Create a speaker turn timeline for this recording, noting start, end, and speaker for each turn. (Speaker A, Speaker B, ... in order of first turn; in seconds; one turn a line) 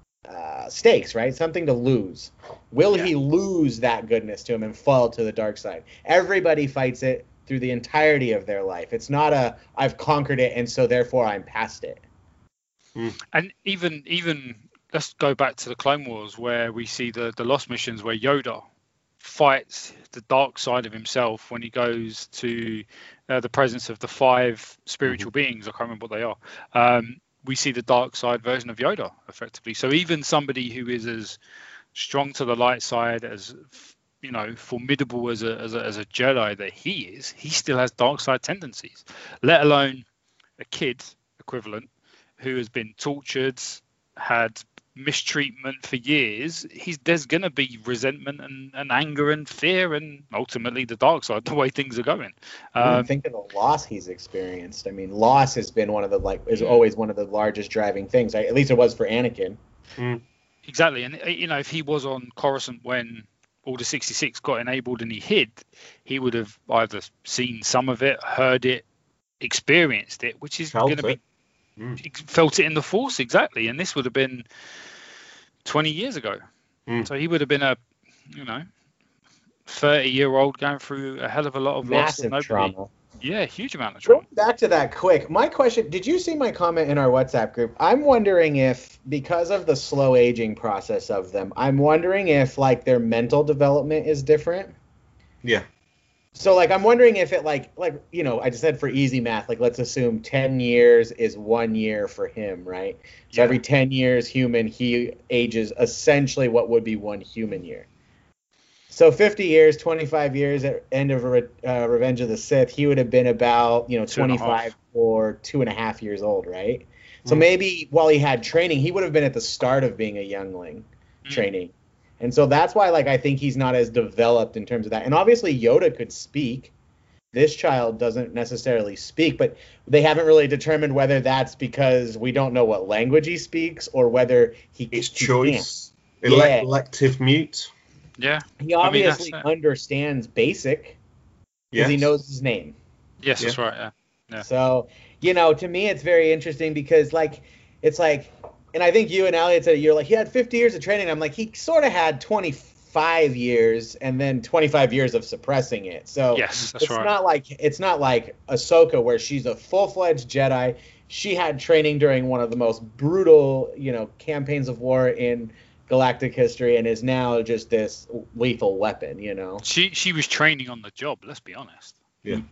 Speaker A: 0.3-12.0
Speaker B: 13.3-18.7
Speaker B: 19.2-31.4
Speaker B: 31.9-40.1
Speaker B: 40.6-41.9
Speaker B: 42.4-53.1
Speaker A: 52.8-59.6
Speaker C: 60.0-60.2
Speaker B: 60.6-68.8
Speaker B: 69.4-71.2
Speaker C: 70.7-71.2
Speaker B: 72.0-74.5
Speaker B: 75.7-76.4
Speaker B: 77.0-77.8
Speaker B: 78.3-78.7
Speaker B: 79.7-84.2
Speaker A: 81.8-82.9
Speaker A: 84.1-94.7
Speaker A: 96.3-107.9
Speaker B: 103.3-103.6
Speaker A: 108.9-126.7
Speaker B: 114.1-114.7
Speaker A: 127.3-135.7
Speaker C: 134.9-137.7
Speaker A: 136.2-136.7
Speaker B: 138.2-139.4
Speaker A: 138.6-141.0
Speaker C: 141.7-142.1
Speaker A: 141.8-142.8
Speaker B: 143.2-144.4
Speaker A: 144.4-169.6
Speaker B: 156.3-157.1
Speaker B: 169.6-172.0